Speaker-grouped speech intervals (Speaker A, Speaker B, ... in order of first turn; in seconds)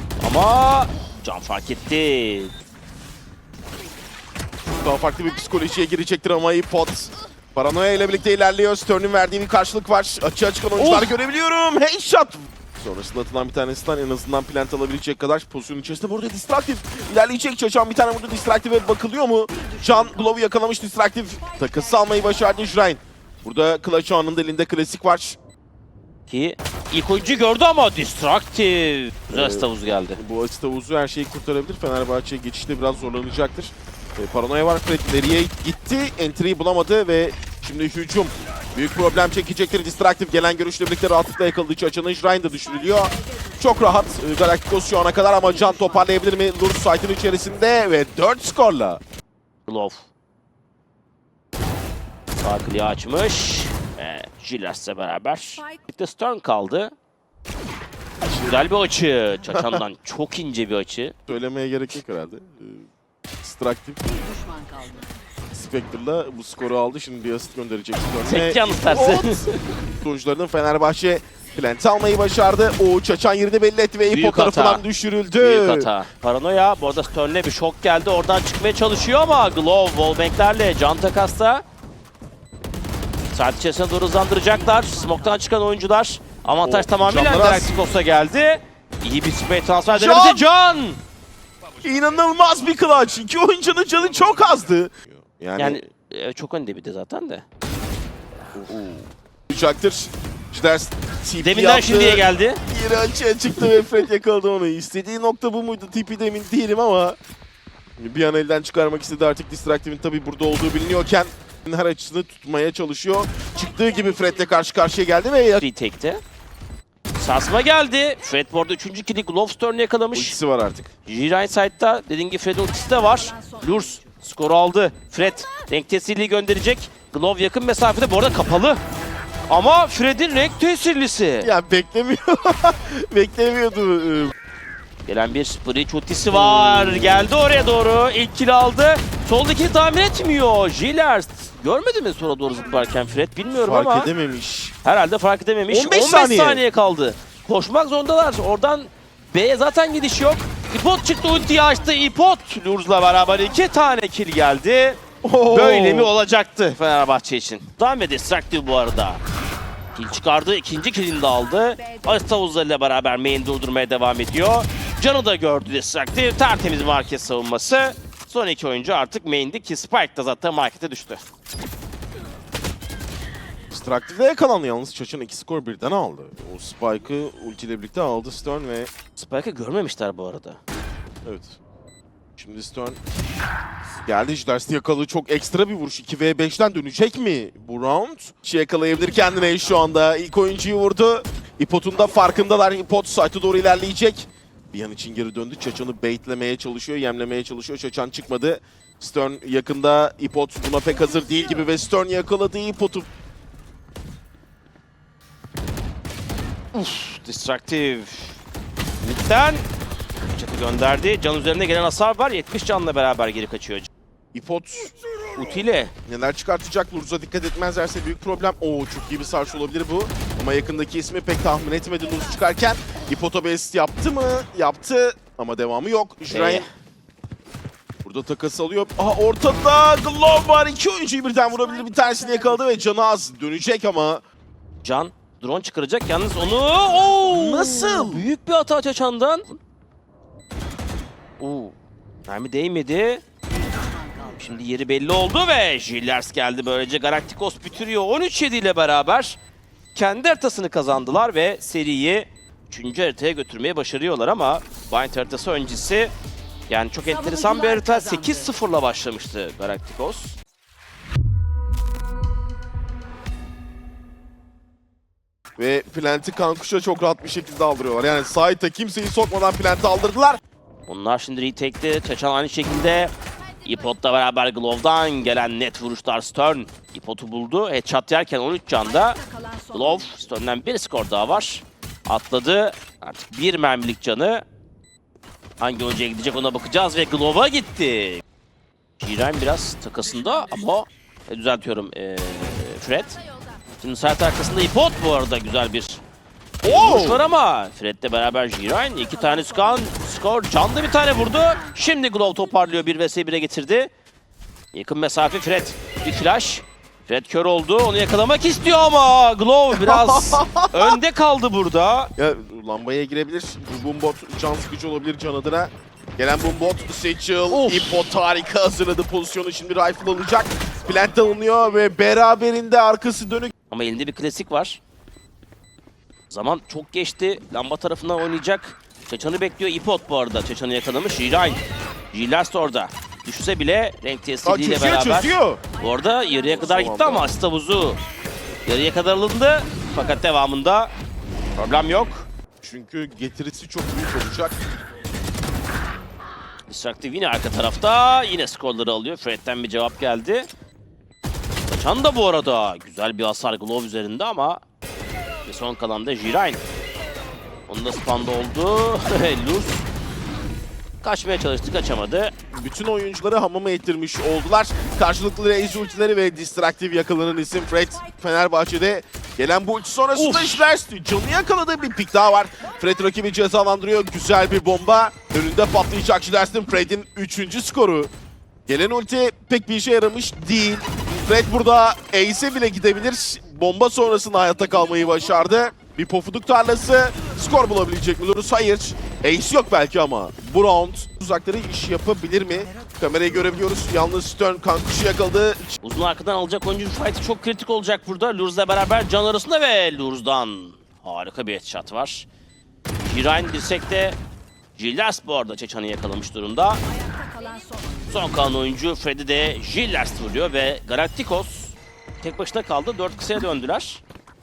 Speaker A: 0.2-2.5, 10.8-11.1, 26.3-30.2, 49.7-50.1, 52.4-57.0, 58.4-61.2, 68.2-69.7, 74.1-74.9, 75.4-81.6, 83.3-91.0, 95.6-97.5, 101.4-102.6, 115.6-116.2, 117.2-120.4, 121.1-128.8, 129.5-131.5, 135.1-144.1, 144.8-159.2, 159.9-171.2, 179.2-180.6, 206.7-208.4, 209.0-209.6, 210.3-213.9, 215.3-215.9, 226.3-226.7, 234.8-239.6, 241.4-241.8, 242.3-243.2, 244.4-249.4, 249.9-256.1, 256.7-260.4, 270.9-273.1, 273.6-279.2, 279.7-284.4, 285.6-288.2, 289.0-293.2, 293.8-296.0, 296.6-303.9, 304.7-312.1, 317.5-317.9, 323.7-324.8, 326.3-331.6, 332.1-338.0, 338.6-340.9, 341.6-342.3, 346.7-350.5, 351.6-354.6, 355.4-356.6, 357.7-359.8, 361.0-362.3, 370.1-370.6, 395.8-402.3, 403.0-404.2, 404.8-406.8, 408.1-414.0
Speaker B: 4.7-25.4, 29.3-49.0, 58.3-58.6, 59.5-59.8, 61.3-62.9, 63.4-64.0, 65.5-75.9, 86.6-87.7, 89.9-90.5, 91.8-95.8, 98.5-107.2, 108.0-115.6, 120.1-120.9, 131.4-134.3, 136.3-137.3, 143.6-144.8, 145.7-146.6, 155.2-156.1, 173.7-178.9, 181.2-181.6, 182.4-183.0, 184.1-203.1, 214.3-214.9, 216.1-226.7, 228.0-234.2, 237.3-238.3, 265.6-270.4, 296.6-297.3, 309.7-311.0, 312.1-323.5, 334.4-335.6, 336.5-337.3, 342.6-344.6, 362.5-378.1, 378.7-395.8
Speaker C: 19.5-20.4, 21.4-22.7, 42.7-44.2, 45.1-46.4, 64.0-65.1, 84.4-85.5, 113.5-114.6, 122.6-124.1, 151.2-152.1, 161.8-162.2, 200.9-201.7, 231.5-232.9, 243.5-244.6, 257.0-258.5, 278.8-280.2, 299.1-302.3, 336.0-337.1, 406.8-408.6